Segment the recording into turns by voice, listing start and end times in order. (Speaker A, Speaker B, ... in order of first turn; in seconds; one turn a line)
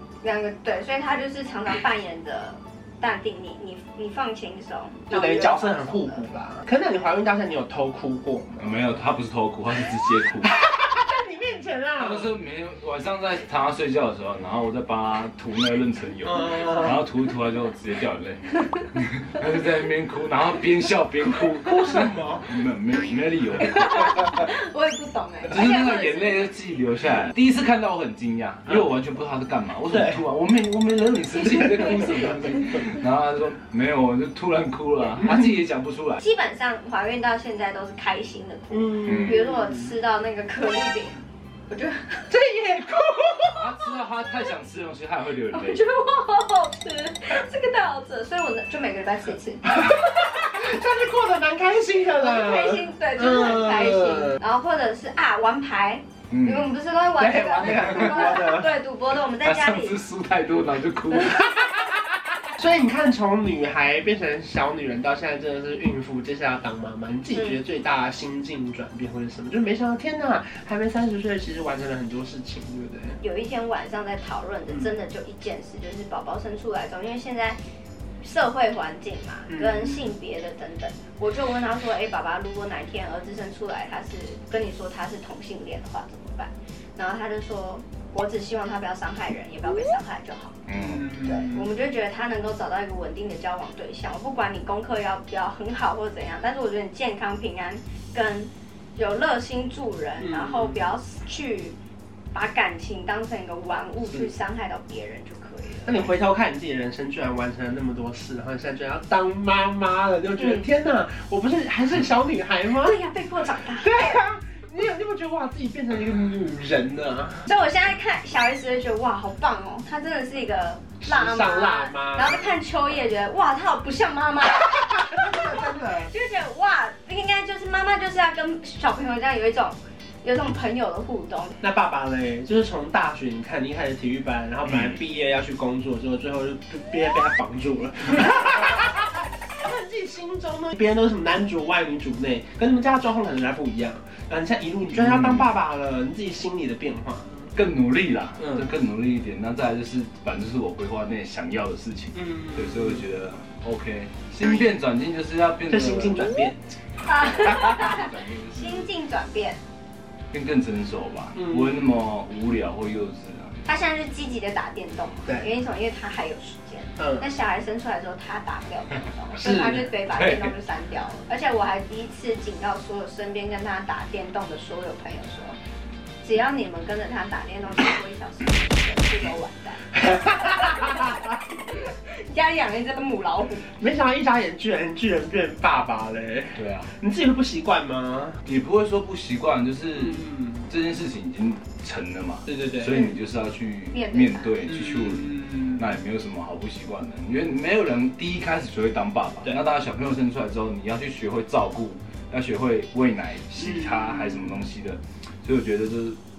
Speaker A: 0.2-6.3
Speaker B: 5.1-8.7
Speaker C: 8.6-10.5
Speaker B: 10.4-12.3
Speaker C: 12.0-24.3
Speaker B: 16.2-17.0
Speaker B: 21.6-22.5
Speaker A: 23.6-26.5
Speaker C: 25.5-36.2
Speaker B: 29.9-30.2
Speaker A: 36.2-42.3
Speaker B: 38.7-40.0
Speaker C: 39.0-39.4
Speaker B: 42.3-43.7
Speaker C: 43.6-45.8
Speaker A: 45.5-50.1
Speaker B: 49.8-54.4
Speaker A: 52.1-60.0
Speaker C: 56.3-56.7
Speaker B: 57.2-58.7
Speaker C: 57.7-58.1
Speaker C: 59.4-61.6
Speaker B: 61.4-73.2
Speaker A: 67.3-67.6
Speaker A: 73.2-77.6
Speaker A: 78.2-90.6
Speaker B: 79.5-80.1
Speaker C: 90.7-91.1
Speaker B: 90.8-91.7
Speaker A: 91.2-101.8
Speaker B: 100.2-100.8
Speaker A: 102.3-106.1
Speaker B: 105.8-113.0
Speaker A: 110.4-110.7
Speaker A: 112.8-114.2
Speaker B: 113.7-117.5
Speaker A: 117.5-131.6
Speaker B: 121.0-122.6
Speaker B: 125.0-126.1
Speaker B: 131.6-147.4
Speaker C: 144.9-145.5
Speaker C: 147.6-156.3
Speaker B: 148.4-148.7
Speaker B: 152.2-153.1
Speaker B: 155.7-156.6
Speaker A: 157.0-159.6
Speaker C: 157.2-158.9
Speaker C: 160.3-163.6
Speaker B: 161.4-161.9
Speaker A: 163.7-175.6
Speaker B: 167.0-167.2
Speaker B: 169.4-169.9
Speaker C: 170.1-170.5
Speaker A: 176.2-183.7
Speaker B: 179.9-181.2
Speaker B: 183.8-188.4
Speaker C: 186.6-186.9
Speaker C: 188.4-206.2
Speaker B: 189.9-190.6
Speaker B: 192.5-193.1
Speaker A: 193.9-194.6
Speaker B: 194.7-195.8
Speaker B: 203.6-204.7